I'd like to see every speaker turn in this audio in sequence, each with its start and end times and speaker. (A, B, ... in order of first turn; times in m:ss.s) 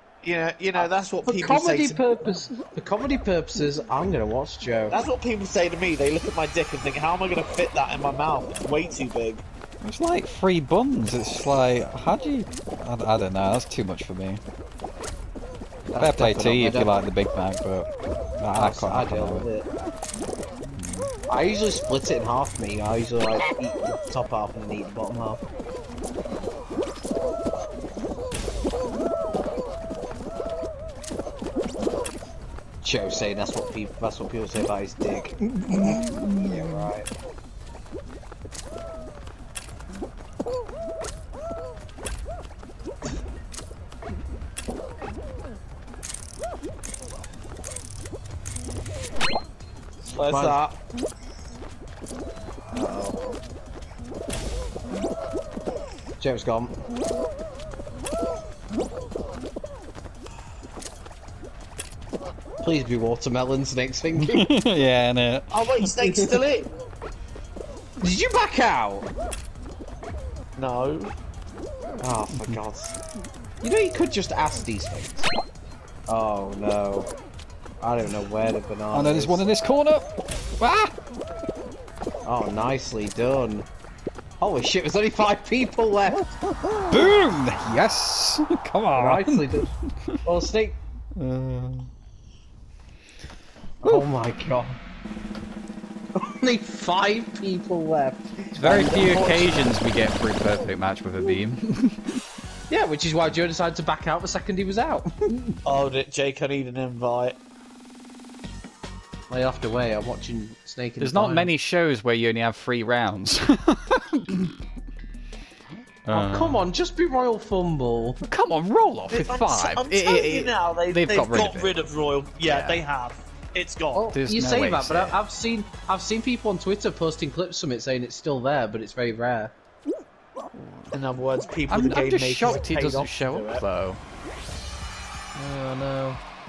0:00.2-0:02.0 A
0:00.8-0:05.1 B
0:04.9-0:09.4 A
0:09.8-0:14.4 C
0:15.9-0:16.9 B
0:16.0-0:19.5 C
0:18.5-0:19.7 B
0:20.7-0:21.1 C
0:21.3-0:25.4 B
0:32.8-0:37.1 B
0:36.1-0:36.6 C
0:50.1-0:50.6 A
0:50.3-0:50.8 B
0:52.7-0:53.4 B
0:56.2-0:56.7 B
1:02.6-1:04.5 B
1:04.2-1:05.6 C
1:05.5-1:06.7 A
1:06.0-1:06.4 B
1:08.0-1:09.1 B
1:10.6-1:11.1 A
1:12.0-1:13.0 B
1:12.3-1:12.6 C
1:13.6-1:15.3 B
1:16.1-1:17.1 B
1:17.8-1:19.4 B
1:18.9-1:20.1 C
1:20.6-1:20.9 C
1:22.2-1:23.7 B
1:24.4-1:26.3 B
1:26.9-1:29.4 C
1:29.0-1:29.7 B
1:30.2-1:30.8 B
1:31.2-1:31.9 C
1:33.8-1:34.8 B
1:36.2-1:38.9 B
1:38.6-1:42.0 C
1:38.6-1:39.7 A
1:42.7-1:45.5 B
1:45.6-1:47.4 A
1:49.3-1:51.5 B
1:51.0-1:54.5 C
1:56.0-1:56.7 C
1:56.1-1:58.2 B
1:58.3-2:01.8 C
1:59.1-2:04.1 A
2:02.4-2:02.8 C
2:03.9-2:09.5 B
2:04.1-2:05.2 C
2:10.5-2:11.0 C
2:10.9-2:13.6 A
2:11.7-2:14.0 C
2:15.4-2:16.2 B